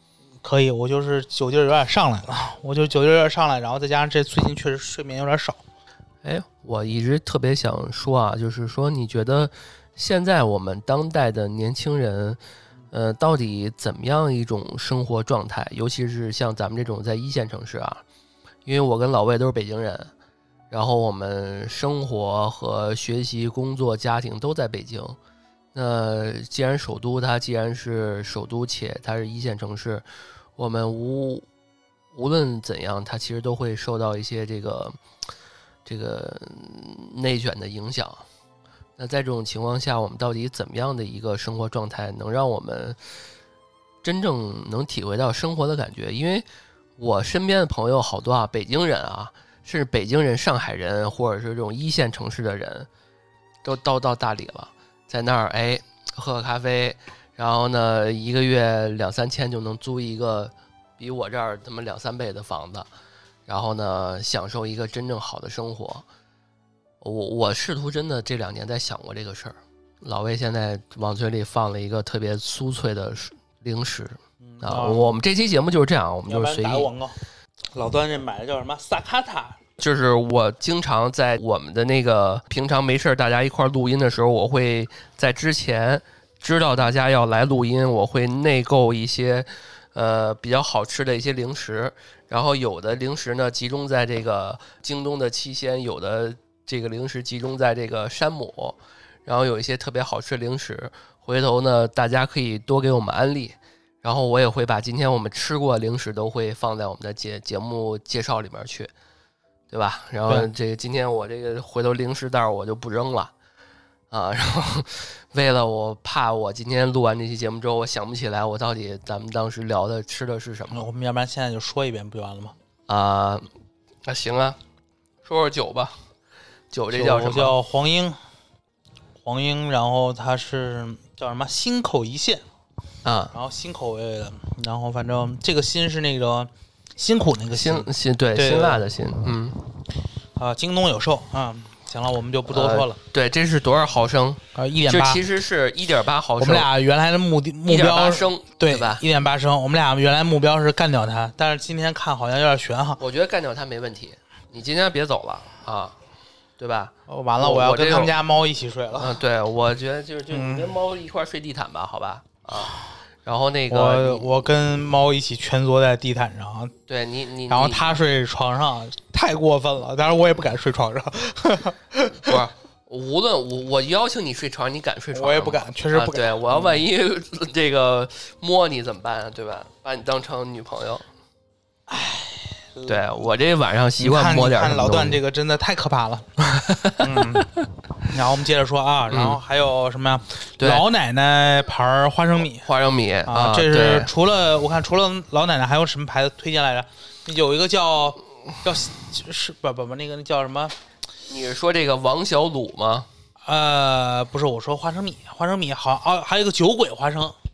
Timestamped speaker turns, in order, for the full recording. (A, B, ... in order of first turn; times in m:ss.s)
0:00.4-0:05.6 A
0:06.2-0:12.4 B
0:12.9-0:18.0 B
0:18.6-0:20.1 B
0:20.7-0:25.2 B
0:25.7-0:30.0 B
0:30.6-0:31.4 B
0:32.1-0:35.0 B
0:35.8-0:38.2 B
0:39.0-0:43.0 B
0:44.0-0:46.4 B
0:47.0-0:52.9 B
0:53.6-1:02.9 B
1:03.5-1:06.0 B
1:07.0-1:16.9 B
1:14.4-1:15.1 A
1:16.3-1:17.2 A
1:17.7-1:19.6 A
1:19.8-1:48.9 B
1:49.7-1:53.3 B
1:54.1-2:00.9 B
2:00.7-2:02.5 A
2:02.9-2:03.5 B
2:04.0-2:04.6 B
2:05.2-2:06.0 B
2:06.7-2:07.6 B
2:06.9-2:08.2 A
2:09.2-2:12.4 A
2:13.0-2:13.3 B
2:13.3-2:18.8 A
2:17.5-2:19.6 B
2:20.4-2:23.0 A
2:22.5-2:26.7 B
2:24.5-2:25.2 A
2:26.4-2:33.0 A
2:27.7-2:29.0 B
2:33.0-2:36.0 B
2:36.6-2:38.1 B
2:37.1-2:39.2 A
2:39.0-2:44.3 B
2:40.3-2:40.7 A
2:43.7-2:46.7 A
2:46.9-2:48.0 B
2:47.5-2:52.4 A
2:52.2-3:01.0 B
2:55.1-2:56.8 A
3:01.9-3:03.3 A
3:02.9-3:05.2 B
3:04.0-3:12.7 A
3:06.6-3:07.4 B
3:09.1-3:09.4 B
3:10.6-3:10.8 B
3:12.6-3:14.1 B
3:13.2-3:20.7 A
3:21.3-3:23.1 B
3:23.4-3:27.3 A